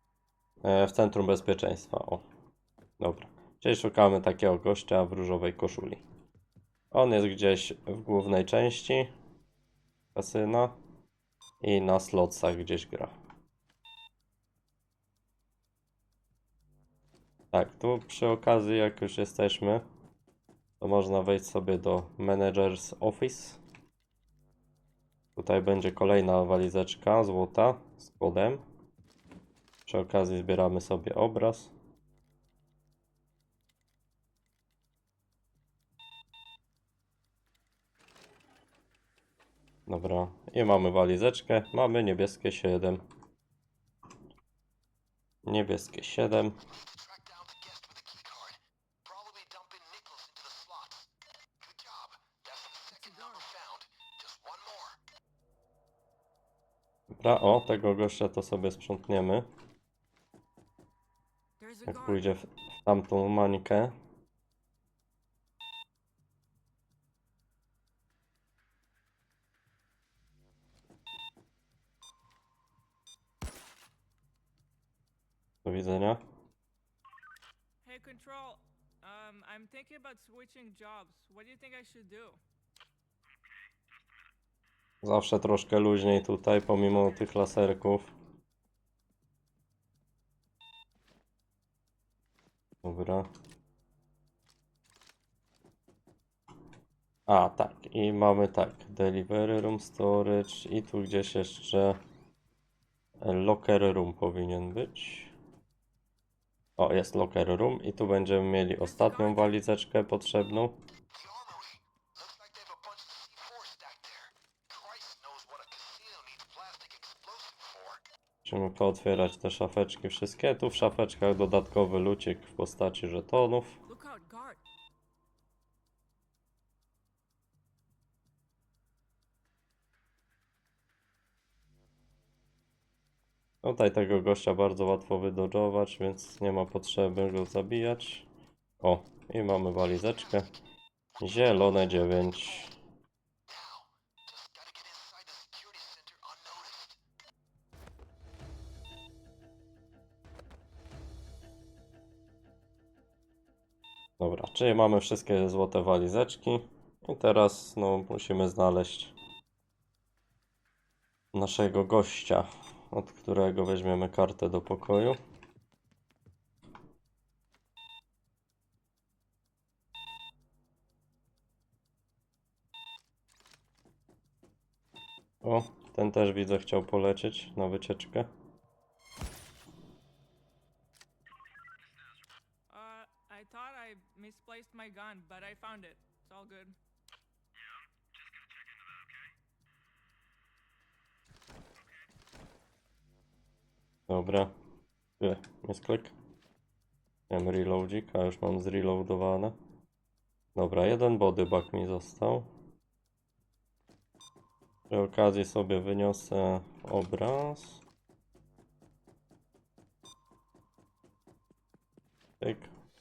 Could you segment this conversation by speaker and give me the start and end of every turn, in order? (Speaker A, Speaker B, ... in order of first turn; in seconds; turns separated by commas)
Speaker A: 0.6-2.2, Speaker A: 3.0-6.0, Speaker A: 6.9-9.1, Speaker A: 10.1-10.8, Speaker A: 11.6-13.2, Speaker A: 17.5-19.8, Speaker A: 20.8-23.6, Speaker A: 25.4-28.6, Speaker A: 29.9-31.7, Speaker A: 39.9-43.0, Speaker A: 45.4-46.6, Speaker B: 46.6-55.0, Speaker C: 52.9-53.5, Speaker A: 57.2-59.5, Speaker C: 61.6-62.3, Speaker A: 61.9-64.0, Speaker A: 75.6-76.2, Speaker C: 77.8-82.4, Speaker A: 85.0-88.1, Speaker A: 92.8-93.3, Speaker A: 97.3-102.0, Speaker A: 103.2-105.3, Speaker A: 106.8-110.8, Speaker C: 108.8-109.6, Speaker B: 111.1-118.0, Speaker A: 118.4-123.8, Speaker C: 123.9-124.6, Speaker A: 133.6-138.3, Speaker A: 138.8-140.5, Speaker B: 139.8-140.6, Speaker B: 141.1-142.7, Speaker A: 141.2-142.7, Speaker B: 143.5-147.0, Speaker A: 154.2-159.1, Speaker A: 161.3-165.2, Speaker A: 175.4-178.3, Speaker C: 182.7-186.8, Speaker A: 194.1-194.5, Speaker A: 195.2-196.1, Speaker A: 197.3-199.6, Speaker A: 200.5-202.5, Speaker A: 204.9-207.8, Speaker A: 212.4-212.7